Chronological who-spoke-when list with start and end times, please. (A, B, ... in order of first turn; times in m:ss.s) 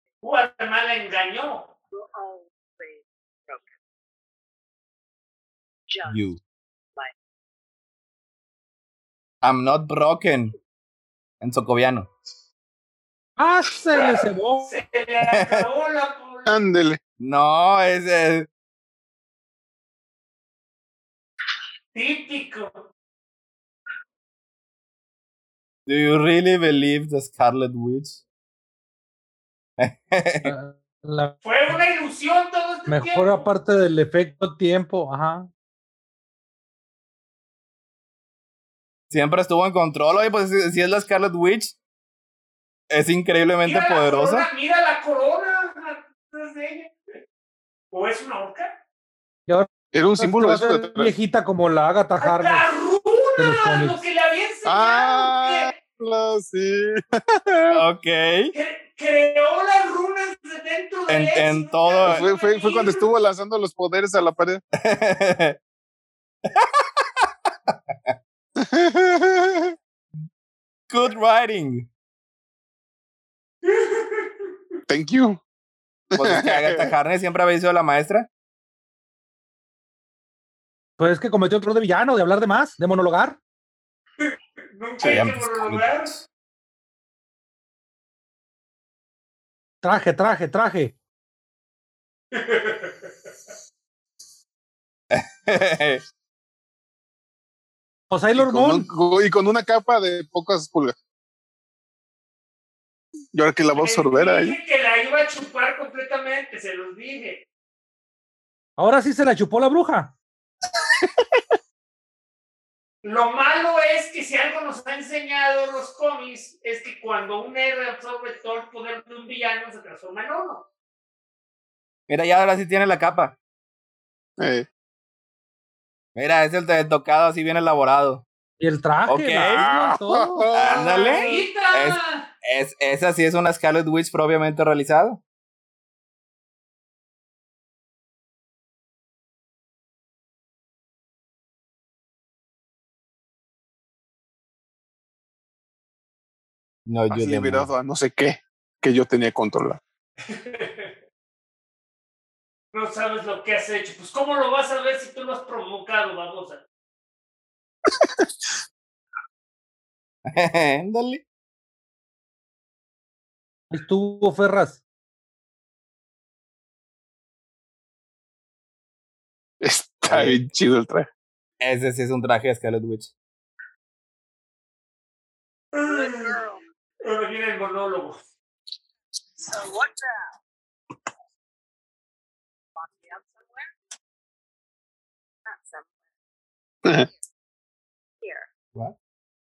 0:00.2-0:01.7 A
0:01.9-0:03.7 B
0:05.9-0:06.2 B
0:06.1-0:06.4 C
0:09.4-0:10.6 C
0:11.4-0:12.1 C
0:13.4-0:14.7 D
0:14.0-0:16.5 A
0:15.3-0:15.7 C
0:16.5-0:17.0 E
0:17.2-0:18.5 C
0:21.9-0:22.8 A
0:25.9-0:28.2 C
0:29.8-0:30.5 C
0:30.4-0:31.4 D
0:31.4-0:33.5 A
0:32.9-0:35.5 D
0:39.1-0:41.8 C
0:42.9-0:44.5 C
0:43.6-0:47.0 A
0:47.9-0:48.7 A
0:49.5-0:52.6 D
0:49.9-0:51.1 E
0:52.2-0:55.7 A
0:53.4-0:54.0 D
0:54.7-0:57.8 E
0:57.7-0:58.5 C
0:58.5-1:03.0 A
1:01.1-1:02.2 C
1:02.1-1:04.6 E
1:04.7-1:05.6 C
1:06.5-1:08.2 C
1:08.6-1:09.7 E
1:10.9-1:11.9 C
1:13.6-1:14.5 A
1:14.9-1:15.4 E
1:16.2-1:16.9 E
1:16.2-1:18.3 C
1:21.0-1:23.4 D
1:24.2-1:26.2 A
1:25.0-1:26.2 C
1:29.8-1:31.0 D
1:32.3-1:33.1 A
1:35.1-1:36.0 C
1:38.1-1:38.9 D
1:38.4-1:41.0 E
1:43.3-1:44.6 E
1:43.8-1:47.4 A
1:48.8-1:50.1 D
1:53.0-2:00.6 A
2:02.1-2:03.4 C
2:04.4-2:04.7 E
2:06.2-2:08.2 C
2:08.6-2:10.5 D
2:09.1-2:09.6 C
2:09.6-2:11.4 E
2:10.5-2:15.2 C
2:10.7-2:12.3 A
2:26.9-2:27.7 C
2:27.1-2:29.8 E
2:30.2-2:30.9 A
2:32.7-2:36.6 A
2:37.9-2:38.2 E
2:40.3-2:41.2 C
2:43.7-2:44.8 D
2:49.6-2:51.1 E
2:50.1-2:50.4 C
2:51.6-2:53.1 C
2:55.7-2:56.4 A
2:55.8-2:56.6 B
2:57.0-2:58.2 A
2:59.4-3:00.3 B
3:02.8-3:03.7 B
3:05.5-3:06.1 B
3:06.9-3:07.2 B
3:08.2-3:08.5 B